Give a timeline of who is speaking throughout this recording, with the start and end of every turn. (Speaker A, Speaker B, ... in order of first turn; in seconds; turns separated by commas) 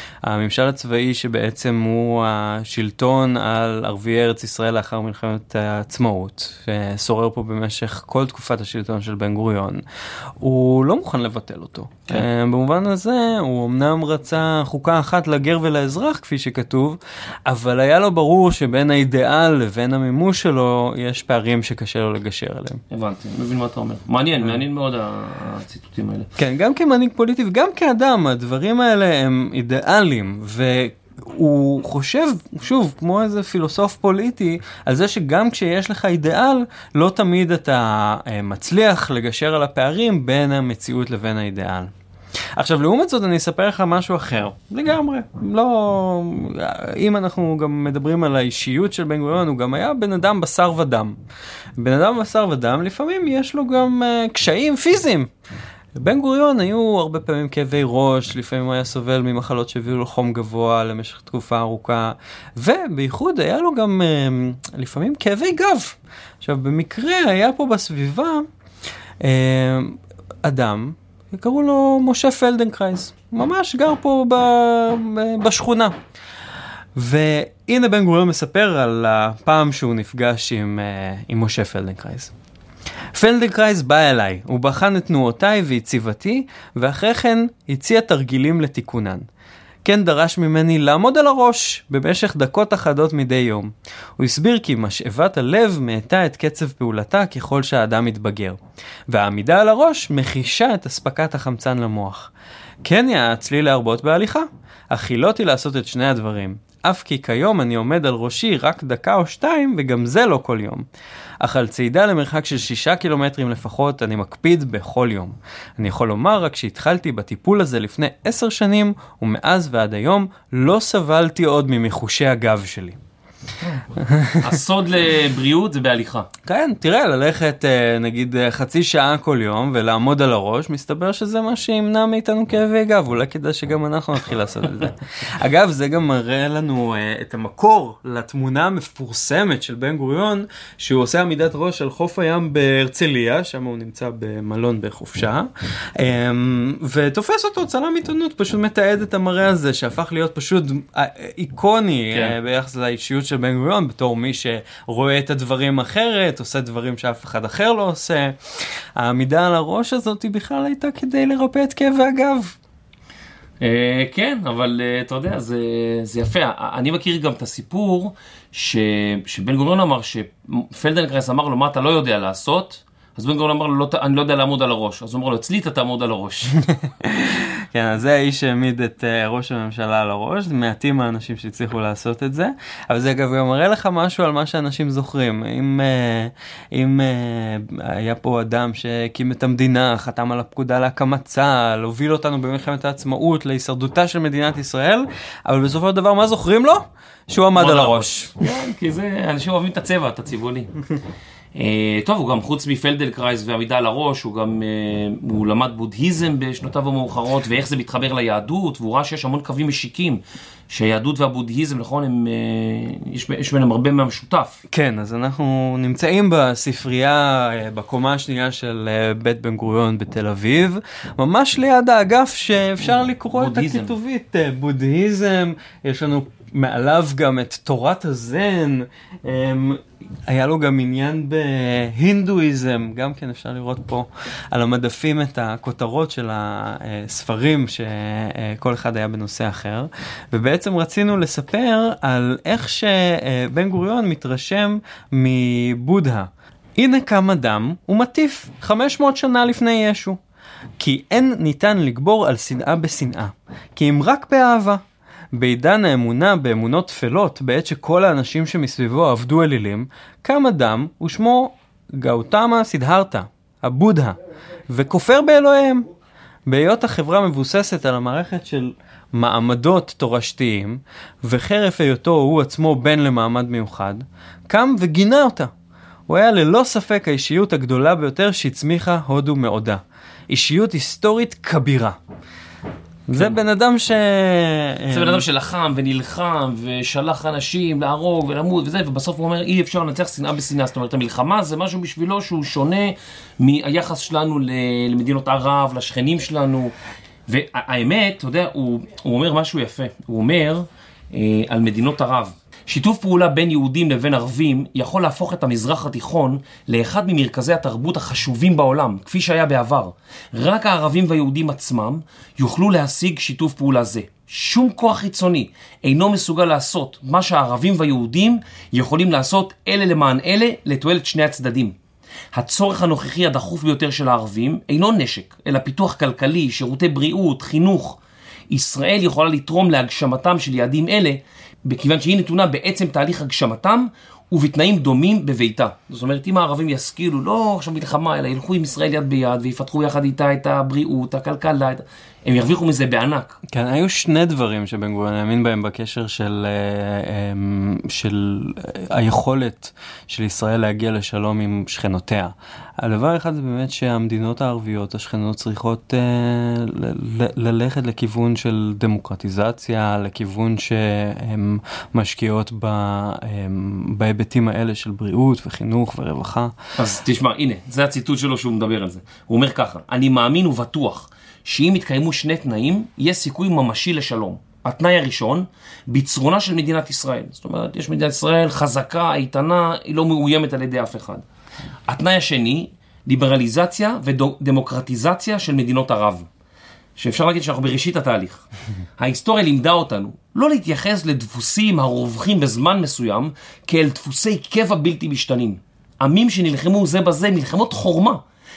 Speaker A: 0.2-9.8, Speaker A: 10.4-22.8, Speaker B: 22.9-26.3, Speaker A: 26.4-41.9, Speaker A: 42.6-51.2, Speaker A: 51.8-55.3, Speaker A: 56.0-68.5, Speaker A: 69.2-75.9, Speaker A: 77.0-82.3, Speaker A: 83.2-89.3, Speaker A: 89.8-102.3, Speaker A: 102.8-110.8, Speaker A: 111.4-123.0, Speaker B: 123.6-123.9, Speaker A: 124.1-124.4, Speaker B: 124.4-126.3, Speaker A: 126.5-158.4, Speaker A: 159.0-162.6, Speaker B: 163.6-176.5, Speaker A: 176.7-198.3, Speaker B: 197.6-200.7, Speaker B: 201.6-214.6, Speaker A: 214.7-250.2, Speaker B: 223.0-223.9, Speaker A: 250.8-254.8, Speaker A: 255.3-264.2, Speaker A: 264.7-265.9, Speaker A: 266.5-275.5, Speaker A: 276.1-282.0, Speaker A: 283.1-285.2, Speaker B: 284.9-296.7, Speaker B: 297.3-321.8, Speaker B: 322.3-328.0, Speaker B: 328.5-343.4, Speaker A: 343.5-366.5, Speaker B: 366.8-381.2, Speaker B: 381.9-386.3, Speaker B: 387.0-388.5, Speaker B: 389.0-398.2